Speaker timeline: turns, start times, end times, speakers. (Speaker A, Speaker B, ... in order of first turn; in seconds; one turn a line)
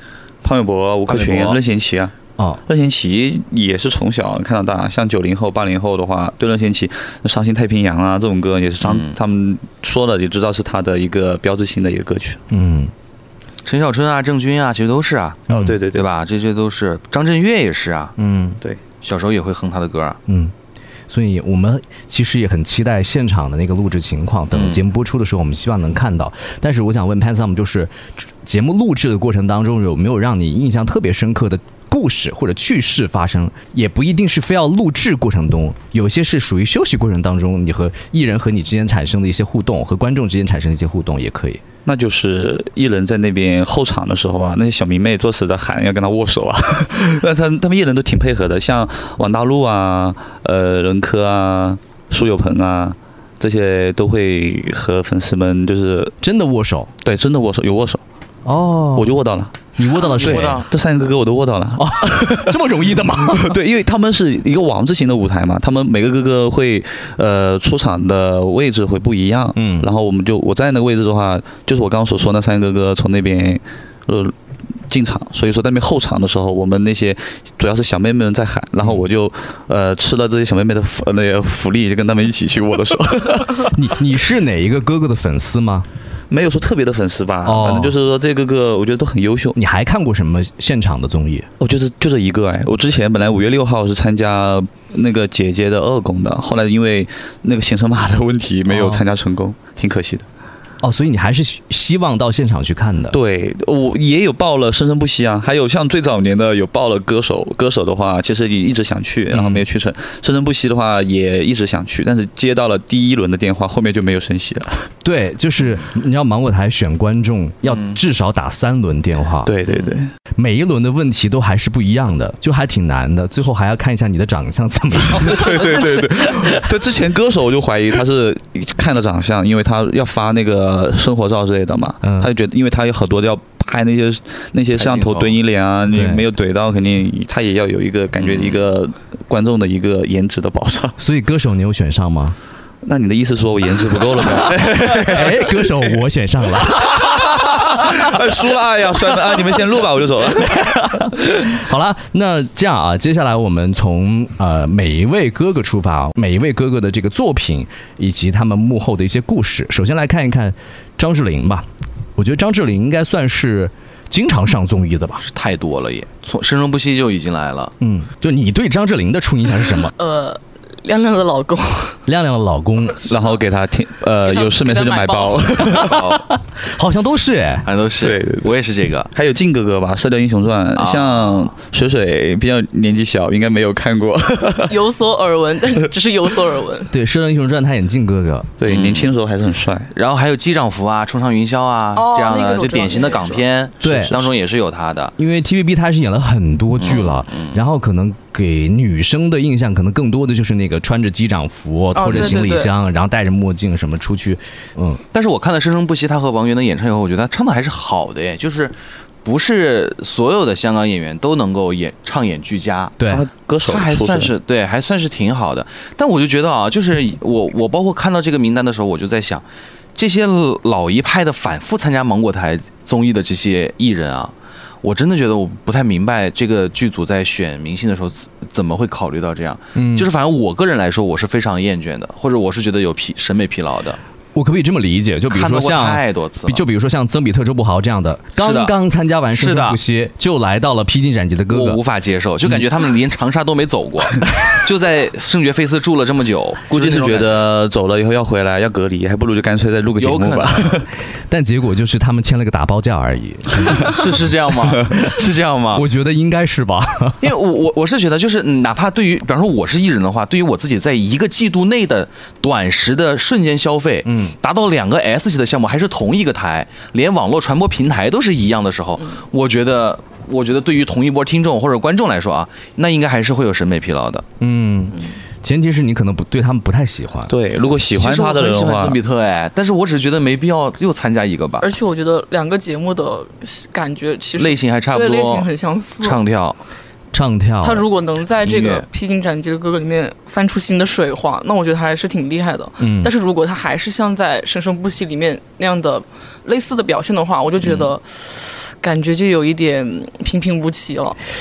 Speaker A: 0.4-12.4
Speaker B: 1.1-1.6
Speaker B: 8.8-9.2
Speaker C: 12.5-12.9
Speaker B: 13.7-18.1
Speaker C: 15.5-15.8
Speaker A: 15.5-16.1
Speaker C: 18.2-18.6
Speaker B: 19.0-20.2
Speaker C: 20.3-20.5
Speaker C: 21.1-41.6
Speaker B: 24.5-24.8
Speaker A: 41.9-56.1
Speaker C: 56.2-56.9
Speaker A: 57.0-58.0
Speaker C: 58.5-59.1
Speaker A: 58.9-59.6
Speaker C: 59.8-60.6
Speaker B: 59.9-60.7
Speaker A: 60.2-74.3
Speaker C: 61.8-63.6
Speaker C: 69.6-69.9
Speaker A: 74.9-83.7
Speaker C: 83.7-85.9
Speaker A: 86.3-89.6
Speaker C: 87.5-88.0
Speaker C: 89.6-91.5
Speaker A: 91.6-100.3
Speaker C: 98.7-99.0
Speaker C: 100.8-103.2
Speaker A: 103.1-114.9
Speaker C: 109.3-109.6
Speaker C: 115.0-119.5
Speaker B: 117.7-118.0
Speaker A: 119.4-120.1
Speaker B: 119.7-120.0
Speaker C: 120.4-126.6
Speaker A: 125.1-141.0
Speaker C: 132.0-132.3
Speaker B: 134.8-135.4
Speaker C: 135.9-136.2
Speaker B: 138.2-138.6
Speaker C: 141.0-142.4
Speaker A: 142.8-146.0
Speaker C: 144.4-148.1
Speaker B: 144.9-145.1
Speaker A: 146.6-151.1
Speaker C: 150.3-165.2
Speaker B: 165.2-167.7
Speaker C: 167.8-169.9
Speaker D: 170.0-172.0
Speaker C: 172.1-173.0
Speaker A: 173.1-176.1
Speaker D: 174.2-175.5
Speaker B: 175.7-176.3
Speaker C: 176.1-177.7
Speaker B: 177.7-179.1
Speaker A: 178.0-178.5
Speaker A: 179.1-184.8
Speaker B: 180.8-181.5
Speaker D: 184.7-186.9
Speaker C: 186.9-188.5
Speaker A: 188.6-189.9
Speaker B: 188.7-189.1
Speaker B: 189.9-195.1
Speaker D: 191.9-193.4
Speaker C: 193.8-194.3
Speaker C: 195.2-205.0
Speaker B: 196.8-197.6
Speaker D: 201.9-202.7
Speaker B: 202.1-202.4
Speaker B: 205.1-213.0
Speaker C: 213.0-213.2
Speaker A: 213.1-214.3
Speaker B: 213.7-219.4
Speaker B: 219.9-234.0
Speaker C: 229.8-230.1
Speaker C: 234.3-241.8
Speaker B: 235.3-236.6
Speaker B: 238.4-238.7
Speaker B: 239.3-239.8
Speaker B: 241.5-247.5
Speaker A: 246.7-250.9
Speaker B: 250.0-250.8
Speaker C: 251.3-254.0
Speaker B: 253.8-255.9
Speaker C: 255.7-257.2
Speaker B: 257.2-274.2
Speaker C: 264.1-264.4
Speaker C: 274.4-277.3
Speaker A: 277.3-279.0
Speaker B: 277.9-281.7
Speaker D: 281.6-286.2
Speaker B: 284.4-285.5
Speaker B: 286.0-286.6
Speaker C: 287.1-287.9
Speaker D: 287.6-301.2
Speaker B: 288.4-288.9
Speaker C: 292.8-293.1
Speaker B: 297.6-297.9